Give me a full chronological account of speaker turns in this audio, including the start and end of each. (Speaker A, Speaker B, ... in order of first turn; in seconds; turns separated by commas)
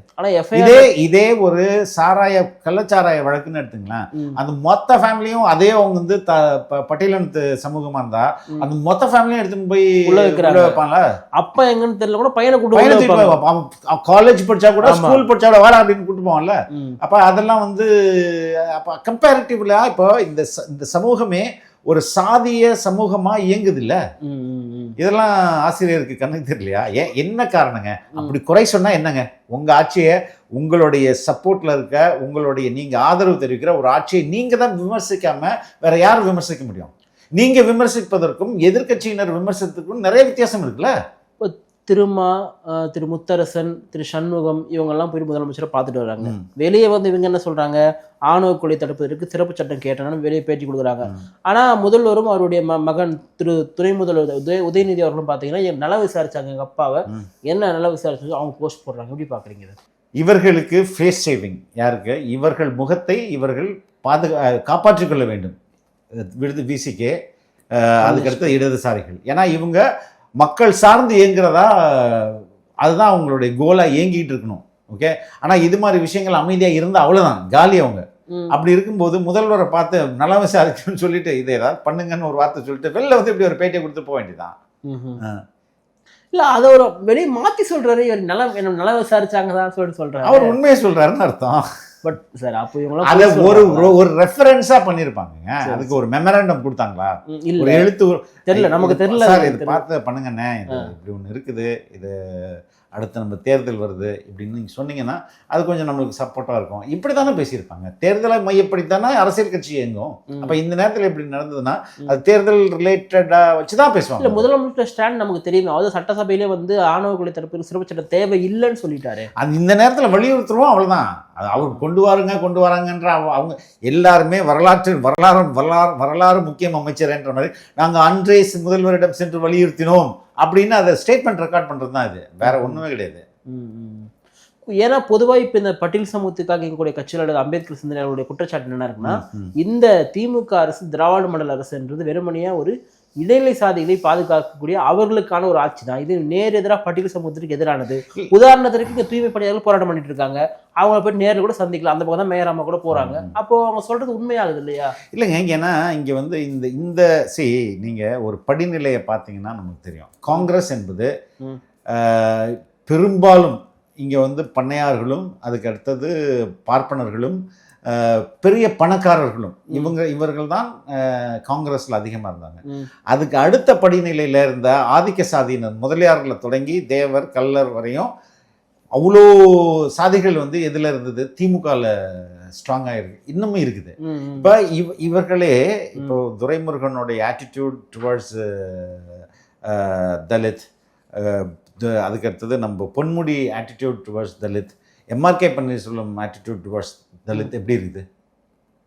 Speaker A: 0.2-0.9, Speaker B: 0.5-11.0, Speaker A: 10.1-10.8, Speaker A: 11.4-13.4, Speaker B: 12.7-24.0, Speaker A: 14.8-15.2, Speaker A: 16.7-17.0, Speaker A: 24.2-25.0, Speaker B: 25.0-40.9, Speaker A: 41.4-59.8, Speaker B: 60.2-65.6, Speaker B: 66.2-67.2, Speaker B: 67.8-69.8, Speaker A: 68.0-68.6, Speaker B: 70.4-84.6, Speaker A: 84.9-85.2, Speaker A: 86.3-90.6, Speaker B: 90.2-91.7, Speaker A: 92.0-94.0, Speaker B: 93.0-114.5, Speaker A: 95.7-96.0, Speaker A: 97.4-97.9, Speaker A: 98.5-99.8, Speaker A: 114.2-119.3, Speaker B: 119.4-133.2, Speaker A: 121.6-121.8, Speaker A: 132.4-132.8, Speaker A: 133.5-134.1, Speaker A: 134.7-155.0, Speaker B: 139.0-139.5, Speaker B: 152.9-153.4, Speaker B: 155.1-161.1, Speaker B: 161.9-166.1, Speaker B: 166.7-178.1, Speaker B: 179.0-189.1, Speaker A: 184.0-184.5, Speaker B: 189.7-190.7, Speaker B: 191.2-198.0